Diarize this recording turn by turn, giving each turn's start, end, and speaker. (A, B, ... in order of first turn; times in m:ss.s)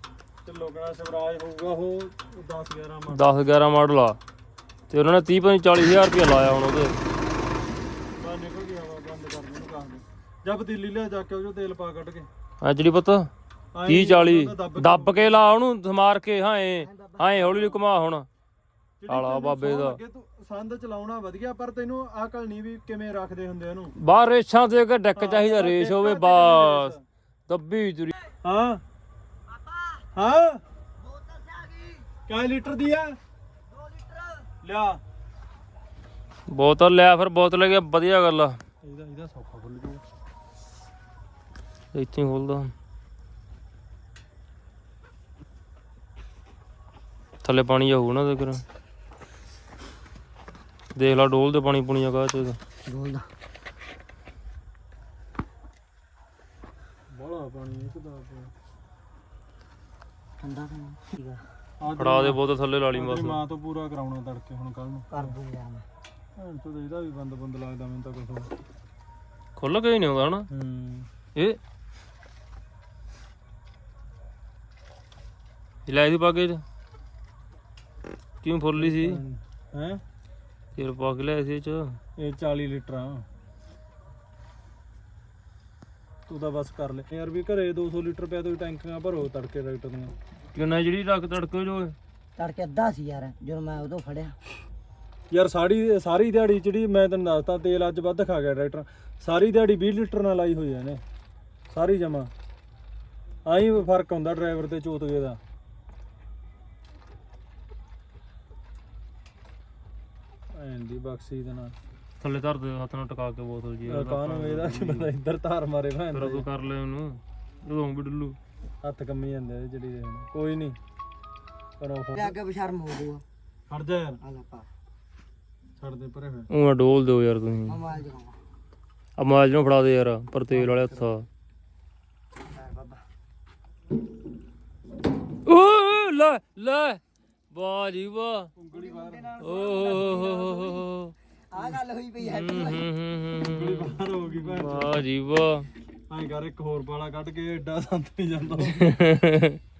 0:00.4-0:03.3 A
0:03.1-0:04.2 B
0:04.9-0:07.0 B
0:08.2-0:12.3 A
0:12.6-0:13.3 B
0:13.7-0:15.4 A
0:13.8-0:18.3 B
0:16.8-0:17.8 C
0:19.0-0:23.9 A
0:19.1-0:20.0 B
0:24.0-0:26.9 B
0:25.2-0:27.0 A
0:27.5-0:28.1 B
0:28.4-0:28.8 A
0:29.5-0:30.0 C
0:30.1-0:30.6 A
0:31.0-0:32.1 C
0:32.3-0:33.2 A
0:33.7-0:34.5 C
0:34.6-0:35.0 A
0:36.5-0:38.6 B
0:38.8-0:40.0 A
0:41.9-0:42.7 B
0:47.4-0:48.6 B
0:50.9-0:52.6 B
0:52.8-0:53.3 C
0:57.1-0:58.5 A
1:00.4-1:01.4 C
1:01.8-1:02.4 A
1:02.0-1:03.4 B
1:02.9-1:05.4 A
1:05.1-1:05.8 C
1:06.4-1:08.5 A
1:09.6-1:10.5 B
1:10.5-1:11.1 A
1:15.9-1:16.6 B
1:18.4-1:19.2 B
1:18.8-1:20.0 A
1:20.8-1:22.0 B
1:22.2-1:23.2 A
1:26.3-1:30.2 A
1:30.5-1:31.9 B
1:32.4-1:34.4 C
1:35.3-1:41.0 A
1:41.7-1:42.3 A
1:43.4-1:45.4 A
1:50.5-1:51.8 A
1:52.2-1:55.1 B
1:53.9-1:56.4 A
1:56.1-1:58.4 B
1:58.8-2:00.8 A
2:01.8-2:02.4 A
2:02.1-2:03.2 C
2:03.7-2:04.2 A
2:04.2-2:04.7 C
2:05.8-2:06.5 A
2:06.5-2:07.8 B
2:07.7-2:08.4 C
2:09.2-2:11.3 B
2:10.5-2:11.0 C
2:12.4-2:13.0 C
2:15.4-2:17.0 B
2:17.5-2:18.5 B
2:18.6-2:19.4 A
2:18.7-2:20.9 C
2:19.4-2:21.1 B
2:21.5-2:22.9 C
2:22.2-2:25.7 B
2:23.4-2:25.0 A
2:26.1-2:28.9 A
2:28.6-2:29.6 B